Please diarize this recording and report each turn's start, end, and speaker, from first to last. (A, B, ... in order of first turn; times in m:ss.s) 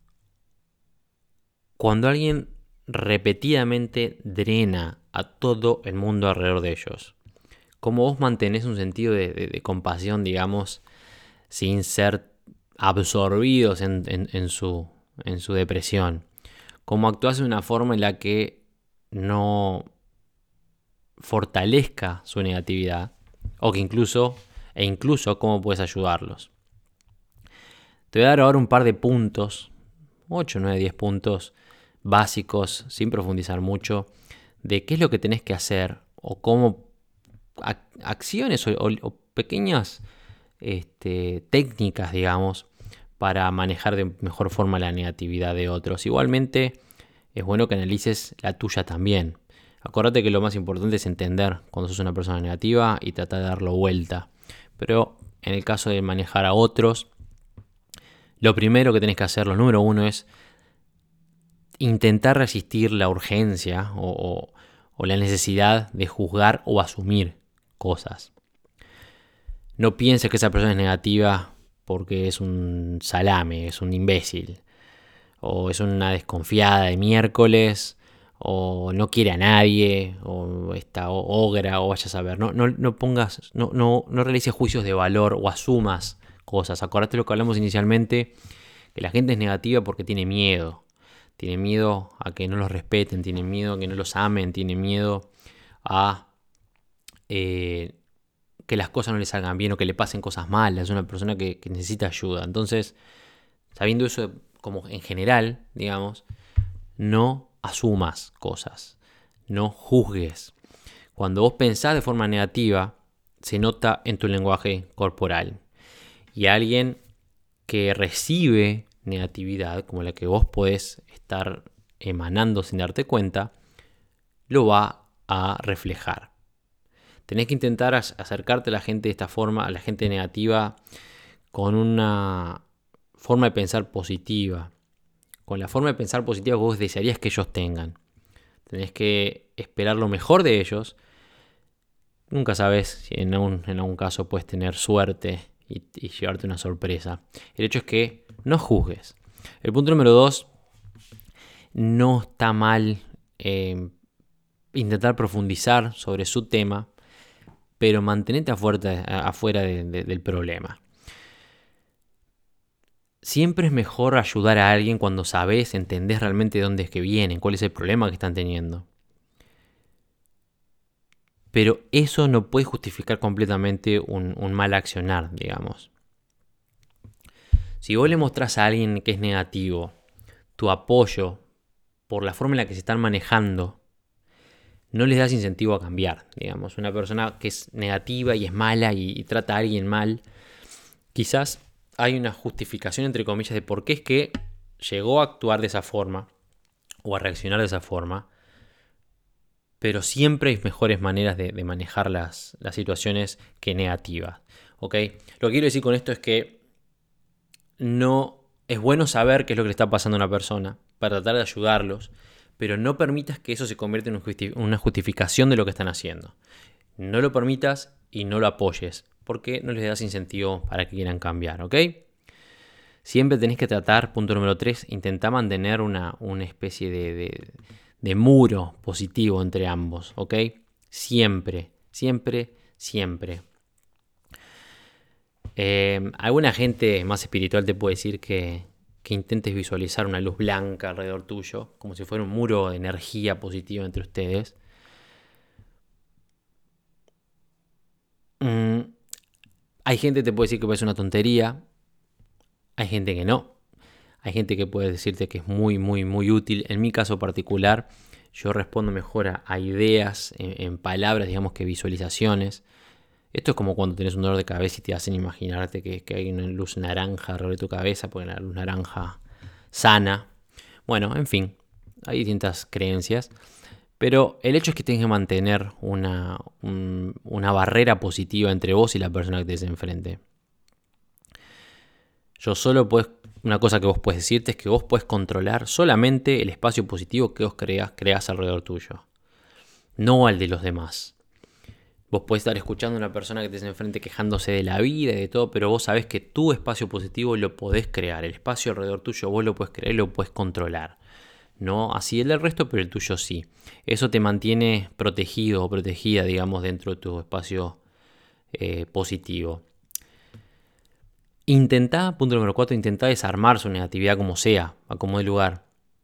0:01.8-0:07.2 A
0:07.8-0:10.8 A
0:11.5-0:16.2 A
0:16.9-0:18.6 A
0:19.1-0:19.9 A
0:21.2-0:26.5 A
0:28.1-0:29.7 A
0:30.3-0:31.5 A
0:32.0-0:34.1 A
0:34.6-0:36.9 A
0:37.6-0:40.0 A
0:40.6-0:42.7 A
0:43.2-0:46.8 A
0:47.3-0:57.1 A
0:58.4-1:00.3 A
1:01.8-1:08.3 A
1:09.8-1:14.6 A
1:15.4-1:28.4 A
1:29.0-1:30.8 A
1:31.4-1:35.3 A
1:35.8-1:36.3 A
1:37.3-1:38.0 A
1:38.7-1:43.0 A
1:43.8-1:46.2 A
1:47.0-1:49.0 A
1:49.5-1:50.5 A
1:51.2-1:55.6 A
1:56.3-1:57.0 A
1:57.7-2:03.5 A
2:04.5-2:06.3 A
2:07.3-2:10.8 A
2:11.5-2:12.6 A
2:13.2-2:14.7 A
2:15.5-2:18.0 A
2:18.7-2:21.0 A
2:22.3-2:30.5 A
2:31.7-2:33.9 A
2:34.7-2:36.9 A
2:37.8-2:40.8 A
2:43.2-2:48.9 A
2:51.5-2:55.9 A
2:57.8-2:59.9 A
3:00.6-3:01.4 A
3:02.1-3:03.8 A
3:04.9-3:10.2 A
3:11.1-3:16.3 A
3:17.0-3:18.3 A
3:19.8-3:26.6 A
3:27.8-3:36.4 A
3:37.0-3:42.0 A
3:43.0-3:53.4 A
3:55.6-4:04.6 A
4:08.4-4:09.0 A
4:09.8-4:11.6 A
4:12.8-4:13.5 A
4:14.2-4:22.6 A
4:23.3-4:29.2 A
4:29.7-4:30.3 A
4:30.9-4:33.3 A
4:34.0-4:40.2 A
4:42.4-4:49.0 A
4:50.0-4:51.2 A
4:52.1-5:01.0 A
5:01.6-5:07.8 A
5:08.5-5:09.6 A
5:11.5-5:15.6 A